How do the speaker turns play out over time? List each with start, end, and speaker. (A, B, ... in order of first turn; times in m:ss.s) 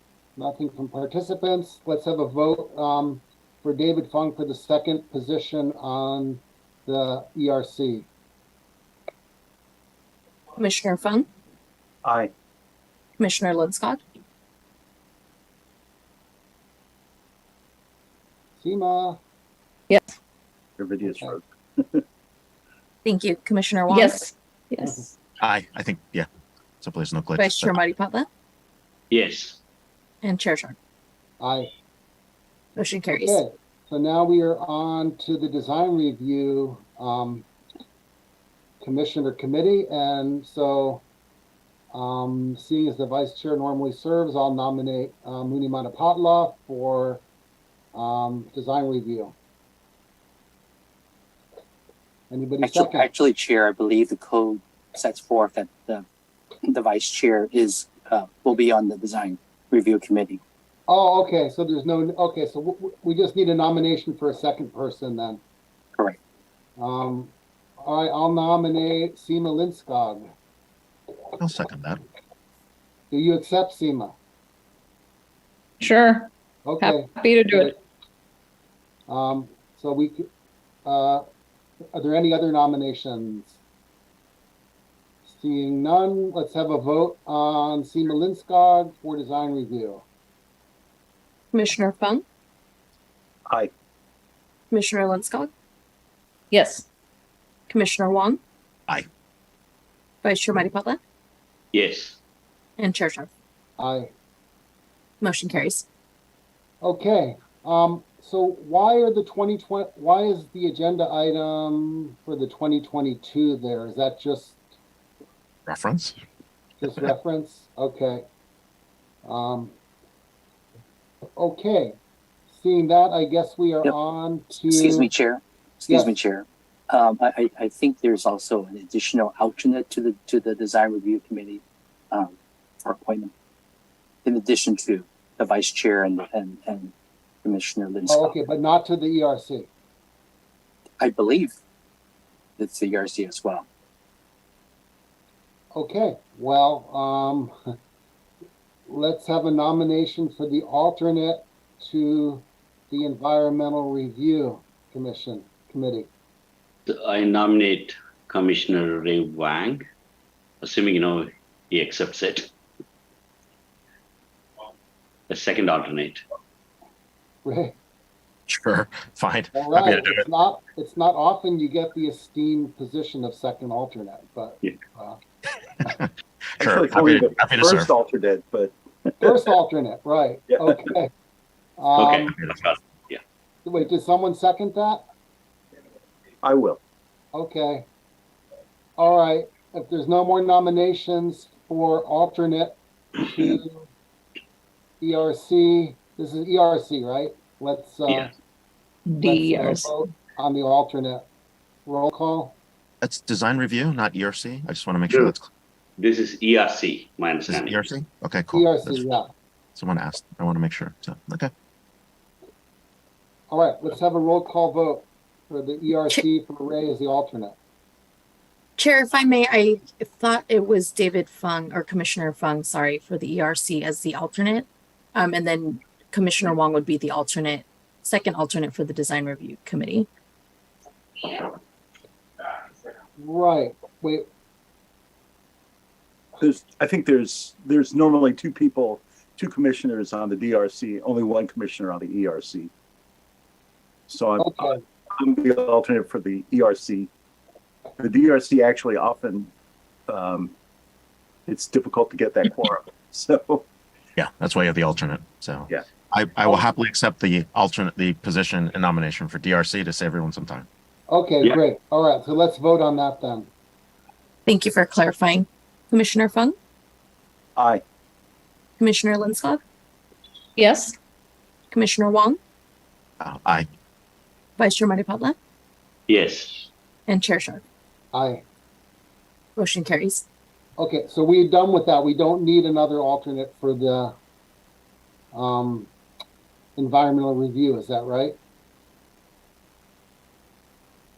0:00.4-0:08.1 A
0:10.6-0:11.3 B
0:12.0-0:12.3 C
0:13.2-0:14.0 B
0:18.6-0:19.2 A
0:20.8-0:22.0 C
0:23.0-0:24.2 B
0:23.9-0:25.0 D
0:25.4-0:26.3 E
0:26.8-0:27.8 E
0:27.4-0:28.3 B
0:29.1-0:29.6 F
0:30.2-0:30.8 B
0:31.4-0:31.7 A
0:32.8-0:33.4 B
0:33.1-0:37.5 A
0:38.8-0:41.0 A
0:41.9-0:47.2 A
0:48.0-0:49.4 A
0:52.3-0:53.1 A
0:52.6-0:56.0 G
0:56.7-1:00.4 G
1:00.9-1:05.4 A
1:06.8-1:10.3 A
1:11.4-1:12.0 E
1:13.1-1:14.1 A
1:15.8-1:17.7 D
1:16.6-1:17.8 A
1:19.1-1:20.3 A
1:20.9-1:21.2 A
1:21.9-1:23.6 A
1:25.2-1:30.0 A
1:31.5-1:32.2 B
1:34.7-1:35.5 B
1:36.5-1:36.8 D
1:37.7-1:38.4 B
1:40.2-1:41.0 B
1:41.7-1:42.2 F
1:42.8-1:43.3 B
1:43.8-1:44.1 A
1:45.2-1:45.9 B
1:46.8-1:54.6 A
1:55.7-1:56.2 E
1:56.8-1:58.2 A
1:59.2-1:59.8 A
2:01.4-2:02.0 A
2:02.5-2:05.1 A
2:04.7-2:13.3 G
2:05.9-2:06.2 A
2:14.2-2:16.9 G
2:17.4-2:18.3 G
2:18.1-2:19.7 A
2:21.0-2:21.6 G
2:22.6-2:23.7 G
2:25.7-2:27.5 A
2:28.9-2:36.1 A
2:36.9-2:39.8 F
2:40.6-2:42.5 F
2:45.3-2:46.2 F
2:47.4-2:47.8 A
2:48.5-2:50.3 E
2:49.5-2:55.2 A
2:55.8-2:56.1 E
2:56.6-2:57.9 E
2:56.6-2:59.3 C
2:59.2-3:01.1 A
3:00.5-3:00.8 C
3:01.8-3:02.3 A
3:02.0-3:03.2 F
3:03.6-3:05.0 A
3:06.4-3:06.8 C
3:07.3-3:07.9 A
3:09.0-3:13.9 A
3:15.0-3:18.3 A
3:19.1-3:19.9 D
3:19.2-3:21.2 A
3:21.9-3:22.6 A
3:23.0-3:25.5 E
3:25.1-3:25.3 F
3:26.0-3:27.9 F
3:27.5-3:29.0 E
3:28.5-3:29.3 A
3:29.8-3:31.5 E
3:33.5-3:37.6 A
3:38.8-3:50.1 B
3:53.2-3:54.3 A
3:56.4-4:02.7 C
4:04.1-4:07.1 C
4:04.4-4:04.8 A
4:08.0-4:09.5 C
4:10.1-4:10.6 C
4:11.5-4:13.7 C
4:14.2-4:20.7 E
4:21.1-4:23.5 A
4:24.5-4:26.6 B
4:27.6-4:27.8 C
4:28.8-4:29.6 B
4:30.6-4:30.9 D
4:31.7-4:32.4 B
4:33.2-4:33.7 E
4:34.6-4:35.4 B
4:36.1-4:36.7 F
4:37.1-4:37.6 B
4:38.1-4:38.4 A
4:39.6-4:40.2 B
4:40.8-4:44.2 A
4:45.3-4:45.9 A
4:46.8-4:48.4 A